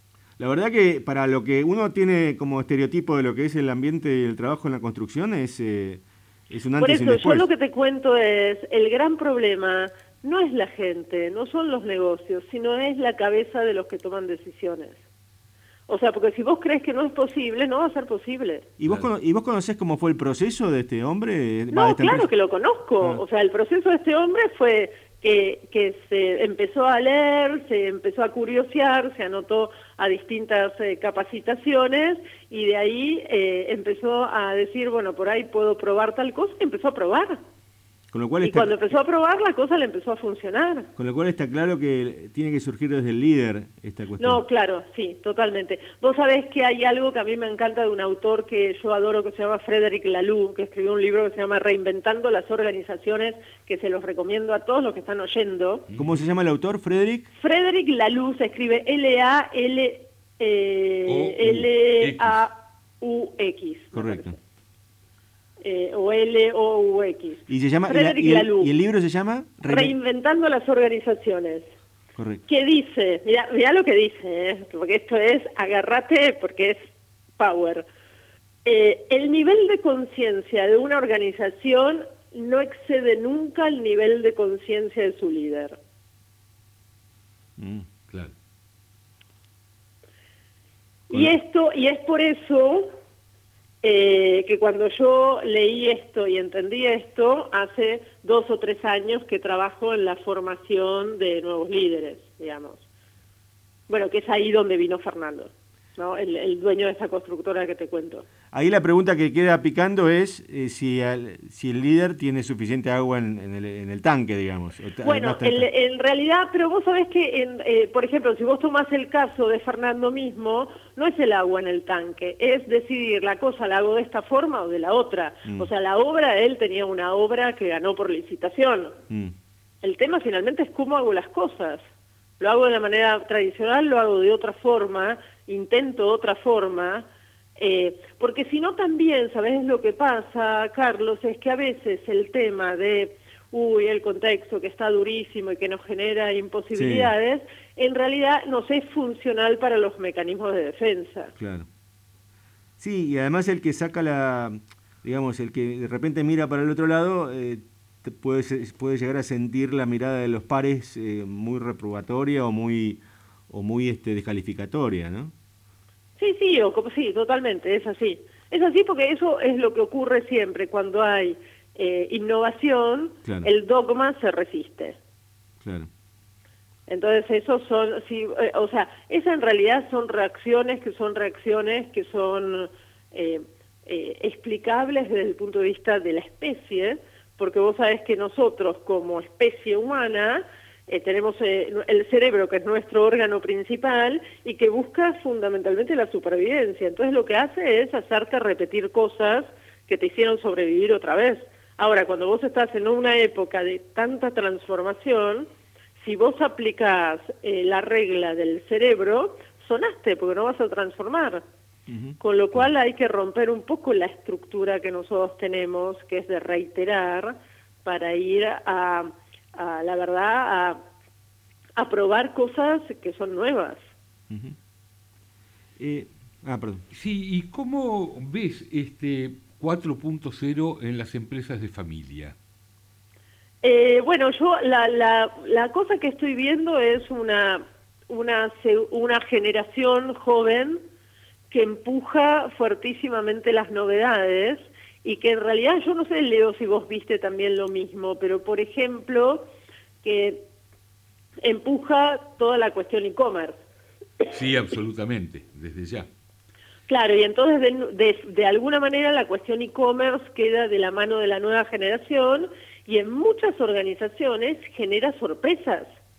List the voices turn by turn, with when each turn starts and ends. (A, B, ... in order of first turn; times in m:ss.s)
0:00.4-0:07.5 A
0:06.8-0:15.0 B
0:15.9-0:18.7 B
0:18.8-0:22.3 A
0:21.7-0:37.4 B
0:38.1-0:39.0 A
0:38.4-0:40.9 B
0:41.0-0:44.4 A
0:44.2-0:55.8 B
0:55.9-0:56.2 C
0:56.0-0:57.3 A
0:57.4-1:04.4 B
1:01.1-1:02.4 C
1:03.9-1:04.3 A
1:05.6-1:08.7 B
1:07.5-1:09.9 A
1:09.7-1:11.7 B
1:12.2-1:12.4 A
1:12.5-1:16.9 B
1:17.4-1:17.9 B
1:18.6-1:25.8 B
1:27.6-1:27.8 A
1:31.1-1:32.9 B
1:33.8-1:42.8 B
1:43.9-1:48.2 B
1:48.5-1:55.7 A
1:55.0-2:09.0 B
2:09.8-2:11.8 B
2:12.4-2:31.3 B
2:26.7-2:27.1 A
2:31.4-2:31.7 A
2:32.8-2:45.3 A
2:46.2-2:55.0 B
2:55.6-2:55.9 A
2:56.9-3:31.4 B
3:31.9-3:32.2 A
3:32.2-3:40.8 B
3:41.8-3:43.8 B
3:44.3-3:44.6 A
3:45.8-3:46.8 A
3:46.9-3:52.3 C
3:53.6-4:00.8 B
4:01.5-4:09.5 B
4:10.0-4:10.5 B
4:11.4-4:13.6 B
4:14.3-4:16.1 C
4:16.9-4:25.9 B